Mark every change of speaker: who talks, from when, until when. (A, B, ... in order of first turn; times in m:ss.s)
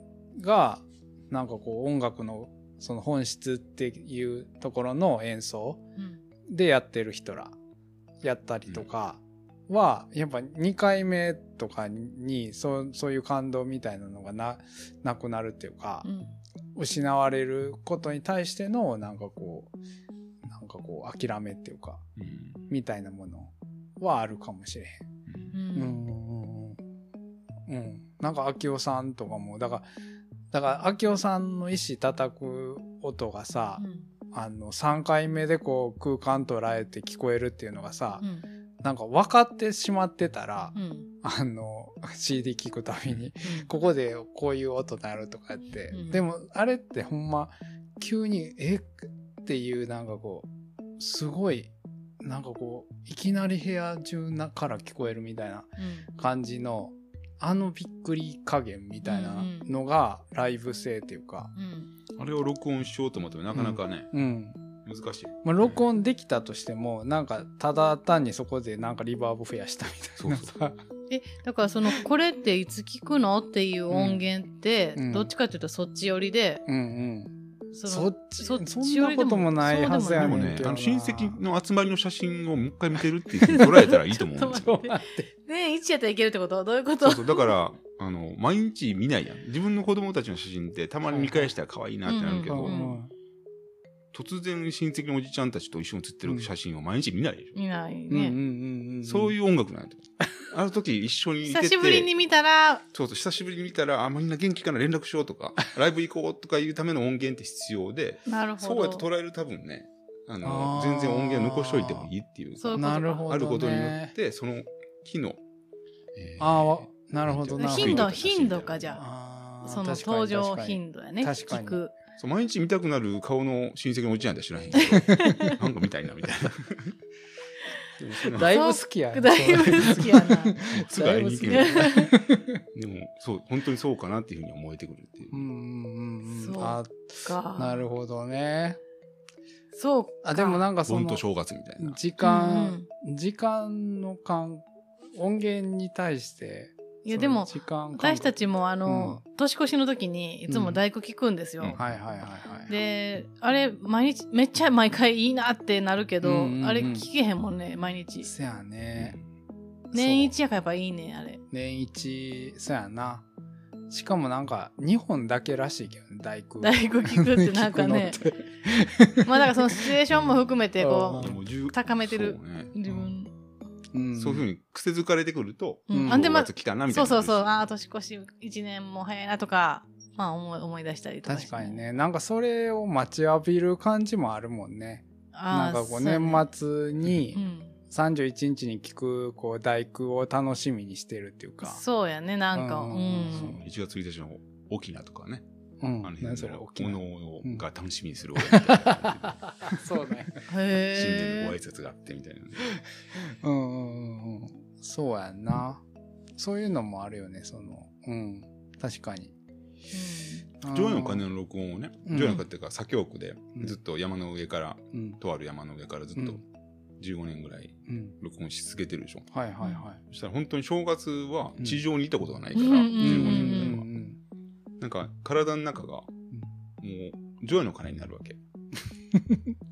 0:00.4-0:05.8 A
0:06.5-0:07.5 A
0:08.2-0:16.0 A
0:16.0-0:16.3 B
0:16.8-0:19.7 A
0:20.4-0:22.0 A
0:22.2-0:22.6 C
0:22.7-0:25.0 A
0:25.5-0:26.0 B
0:25.7-0:26.8 A
0:27.7-0:29.9 A
0:30.5-0:38.2 A
0:33.8-0:34.1 B
0:38.2-0:38.4 B
0:38.8-0:48.9 A
0:40.7-0:41.1 B
0:43.4-0:43.7 B
0:45.9-0:46.2 B
0:49.4-0:50.5 A
0:51.0-1:01.5 A
0:55.8-0:56.1 B
0:59.0-0:59.7 B
1:01.6-1:01.9 B
1:02.2-1:04.1 C
1:03.5-1:04.6 A
1:04.8-1:05.8 C
1:05.4-1:10.8 A
1:10.2-1:10.5 C
1:11.1-1:16.6 B
1:13.9-1:14.2 A
1:15.0-1:15.3 A
1:16.7-1:17.3 A
1:17.7-1:20.5 B
1:17.9-1:21.4 A
1:20.1-1:24.8 C
1:23.4-1:27.5 B
1:24.5-1:25.3 A
1:27.0-1:32.8 C
1:31.1-1:31.5 A
1:32.1-1:33.0 B
1:32.5-1:33.1 A
1:34.1-1:37.6 C
1:36.2-1:36.5 A
1:37.5-1:38.4 B
1:38.1-1:39.3 A
1:39.0-1:42.1 C
1:41.5-1:42.8 B
1:42.9-1:55.4 C
1:48.3-1:49.0 B
1:50.4-1:52.1 A
1:52.6-1:53.3 B
1:52.7-1:54.1 A
1:56.1-1:58.9 C
1:56.4-1:58.2 A
1:57.6-1:59.0 B
1:58.9-2:01.8 A
1:59.6-2:01.9 B
2:02.2-2:07.0 C
2:04.8-2:05.6 B
2:08.0-2:08.5 C
2:08.1-2:12.6 A
2:08.2-2:12.1 B
2:10.6-2:12.0 C
2:12.7-2:15.4 C
2:15.3-2:18.8 A
2:16.3-2:17.8 B
2:19.7-2:20.6 B
2:20.2-2:21.2 A
2:20.8-2:22.0 C
2:21.8-2:29.2 A
2:22.2-2:22.9 B
2:27.0-2:31.8 B
2:30.5-2:30.8 A
2:31.6-2:31.8 C
2:31.8-2:32.7 A
2:32.7-2:38.3 B
2:36.2-2:37.1 A
2:38.2-2:39.2 A
2:39.0-2:39.2 C
2:39.9-2:40.3 A
2:39.9-2:41.4 B
2:41.5-2:43.2 A
2:43.9-2:51.4 A
2:46.6-2:48.4 B
2:49.2-2:53.3 B
2:51.2-2:52.7 C
2:53.9-2:54.5 A
2:54.2-2:57.6 C
2:55.9-3:01.8 B
2:55.9-2:56.2 A
3:01.2-3:07.4 A
3:05.3-3:06.5 B
3:07.3-3:07.8 B
3:07.9-3:11.8 A
3:11.6-3:13.6 B
3:12.5-3:13.6 A
3:13.3-3:15.4 C
3:15.8-3:17.6 A
3:16.0-3:19.8 C
3:18.4-3:20.3 A
3:20.4-3:21.5 B
3:20.9-3:22.8 C
3:23.2-3:25.8 A
3:26.4-3:29.3 A
3:29.9-3:30.4 B
3:30.6-3:31.2 A
3:30.7-3:36.4 C
3:32.1-3:32.4 A
3:34.9-3:35.2 A
3:36.2-3:36.4 A
3:37.0-3:39.3 C
3:37.9-3:38.1 A
3:39.3-3:40.0 A
3:40.0-3:43.9 C
3:42.5-3:43.8 B
3:43.0-3:44.2 A
3:44.8-3:46.1 C
3:46.8-3:48.4 C
3:49.1-3:49.5 A